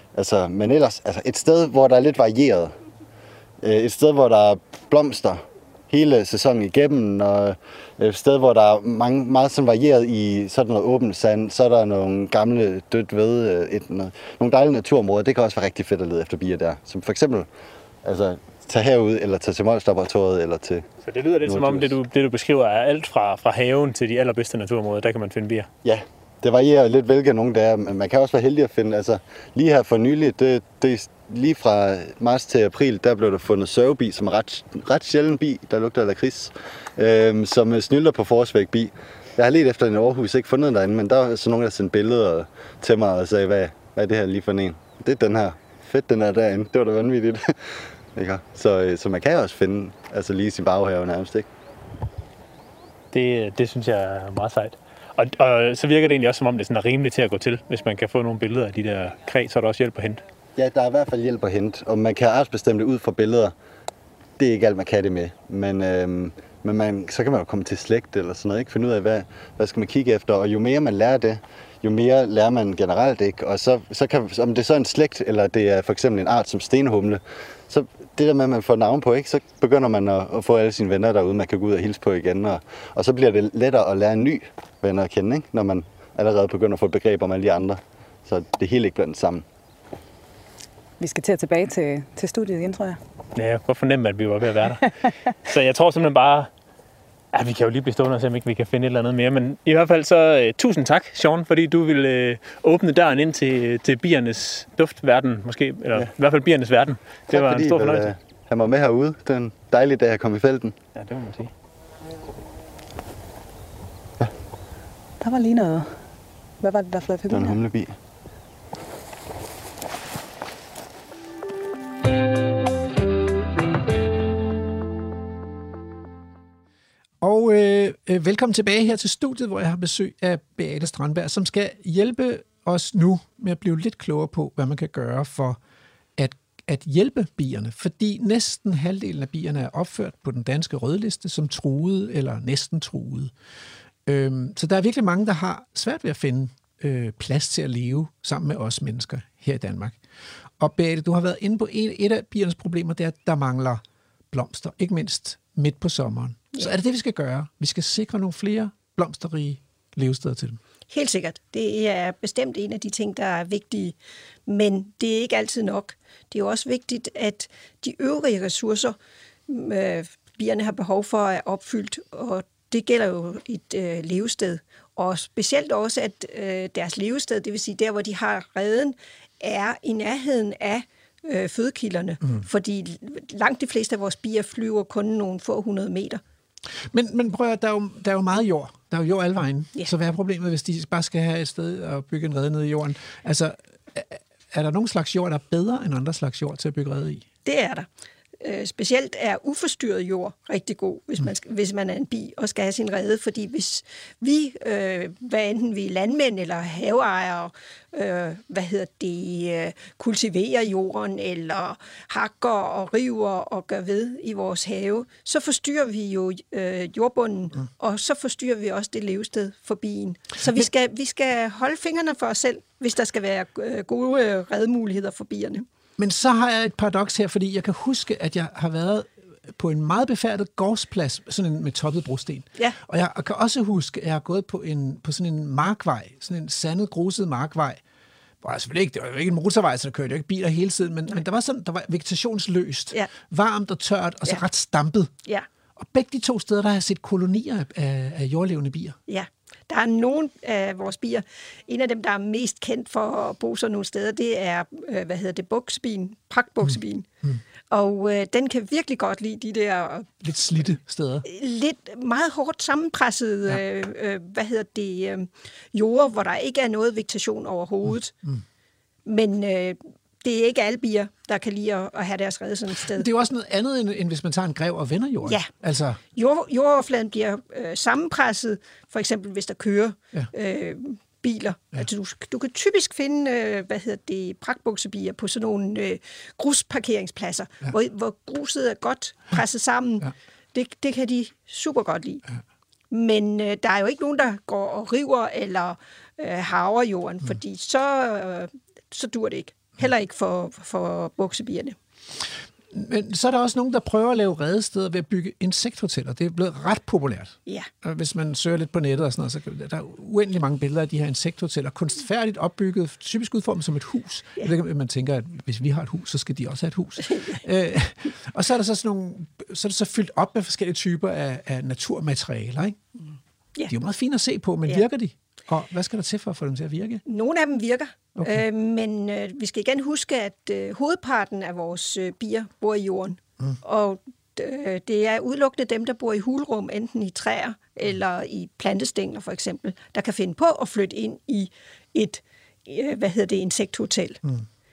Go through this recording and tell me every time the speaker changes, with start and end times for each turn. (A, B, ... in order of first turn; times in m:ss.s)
0:00.1-0:02.7 A
0:03.6-0:17.5 A
0:18.0-0:20.8 A
0:21.0-0:25.7 B
0:21.4-0:21.9 A
0:25.8-0:51.5 A
0:53.1-1:00.2 B
1:00.6-1:03.5 A
1:04.4-1:29.4 A
1:31.0-1:33.0 C
1:33.3-1:34.9 B
1:35.4-1:36.5 B
1:37.3-1:48.1 B
1:47.3-1:50.8 A
1:50.9-1:51.5 B
1:55.2-1:55.9 C
1:56.6-1:57.6 C
1:57.3-1:58.0 A
2:07.2-2:15.6 D
2:16.2-2:23.3 D
2:24.0-2:30.0 D
2:30.6-2:33.8 D
2:34.3-2:40.6 D
2:40.9-2:49.0 E
2:49.5-3:06.2 E
3:06.9-3:17.2 D
3:17.4-3:17.9 E
3:18.4-3:45.6 E
3:46.0-3:57.8 D
3:58.4-4:05.1 D
4:05.8-4:09.0 D
4:09.1-4:17.0 E
4:16.6-4:17.4 D
4:17.7-4:20.1 E
4:20.2-4:21.2 D
4:21.2-4:28.1 E
4:29.0-4:33.1 E
4:32.8-4:36.0 D
4:36.1-4:52.2 E
4:52.9-5:01.8 E
5:02.7-5:22.8 D
5:17.0-5:17.4 E
5:23.7-5:27.0 D
5:27.0-5:44.2 E
5:28.2-5:28.4 D